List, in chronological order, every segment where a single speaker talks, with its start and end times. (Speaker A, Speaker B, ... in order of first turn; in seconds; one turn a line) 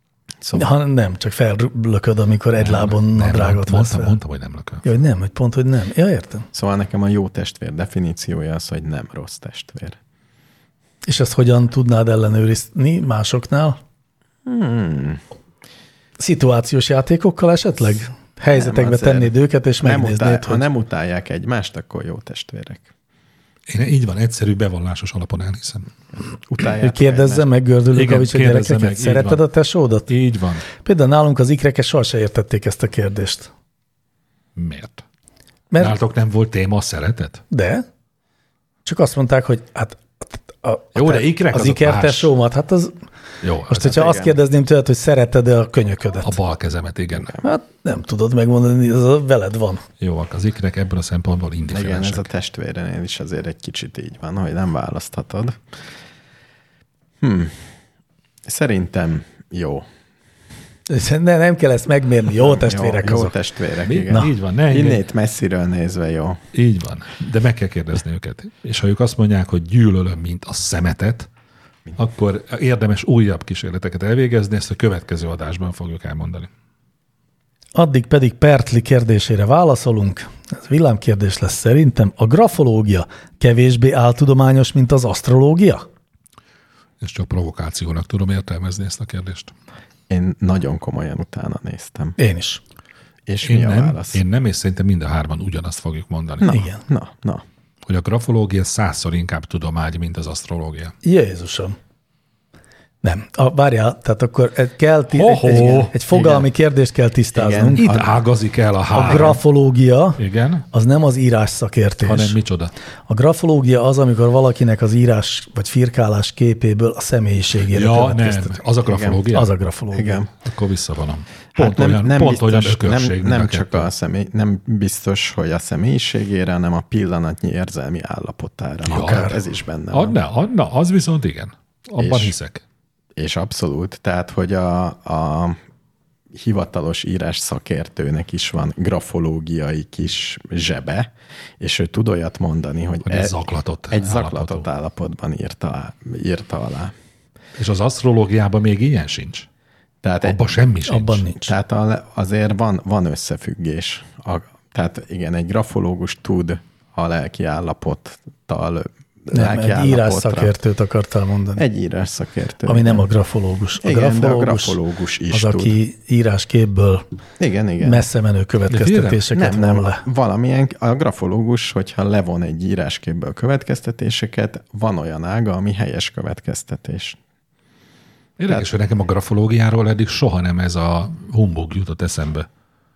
Speaker A: 0.4-0.7
Speaker B: 0.5-4.2
Speaker C: 2.6-4.8
Speaker B: 4.8-6.5
Speaker A: 6.5-10.0
Speaker B: 11.0-13.8
Speaker A: 14.4-15.2
Speaker B: 16.2-20.6
Speaker A: 18.5-22.9
Speaker C: 23.7-25.9
Speaker A: 26.3-27.5
Speaker B: 26.8-30.1
Speaker C: 27.9-29.4
Speaker C: 30.1-30.6
Speaker B: 30.8-33.5
Speaker C: 34.5-35.0
Speaker C: 35.8-37.4
Speaker B: 37.5-37.8
Speaker B: 38.8-43.0
Speaker C: 40.9-42.3
Speaker C: 43.4-43.9
Speaker B: 43.7-46.3
Speaker A: 43.8-44.4
Speaker C: 46.2-47.3
Speaker A: 47.1-47.5
Speaker B: 47.4-49.8
Speaker C: 50.0-52.2
Speaker A: 51.7-55.6
Speaker A: 57.2-57.6
Speaker A: 58.5-59.9
Speaker B: 60.9-63.4
Speaker A: 62.4-66.4
Speaker C: 63.8-65.0
Speaker C: 66.5-71.3
Speaker C: 72.0-76.5
Speaker B: 77.7-85.8
Speaker C: 87.0-89.5
Speaker A: 90.1-92.2
Speaker B: 92.2-92.6
Speaker A: 93.3-94.2
Speaker C: 93.4-96.5
Speaker A: 96.4-97.4
Speaker B: 96.5-96.8
Speaker C: 97.8-100.9
Speaker B: 101.0-101.8
Speaker B: 103.0-107.8
Speaker C: 105.1-105.9
Speaker A: 105.5-106.5
Speaker A: 107.3-108.2
Speaker C: 107.8-109.4
Speaker B: 108.9-112.4
Speaker C: 110.2-110.7
Speaker C: 112.0-112.7
Speaker B: 113.1-118.6
Speaker C: 117.7-119.5
Speaker A: 118.8-119.3
Speaker B: 119.3-120.2
Speaker A: 119.9-120.3
Speaker C: 120.4-123.9
Speaker A: 121.5-130.2
Speaker C: 128.9-129.4
Speaker C: 129.9-132.6
Speaker A: 132.0-132.3
Speaker A: 133.2-135.6
Speaker A: 136.3-146.9
Speaker C: 143.0-144.7
Speaker C: 147.6-149.5
Speaker A: 150.0-150.4
Speaker C: 150.2-151.3
Speaker B: 150.9-151.5
Speaker A: 151.4-160.5
Speaker B: 159.3-161.6
Speaker A: 161.6-163.1
Speaker B: 162.7-164.8
Speaker A: 163.8-165.8
Speaker B: 165.3-167.0
Speaker A: 167.4-168.1
Speaker B: 167.8-170.0
Speaker C: 168.7-169.2
Speaker A: 169.3-177.2
Speaker C: 178.4-182.5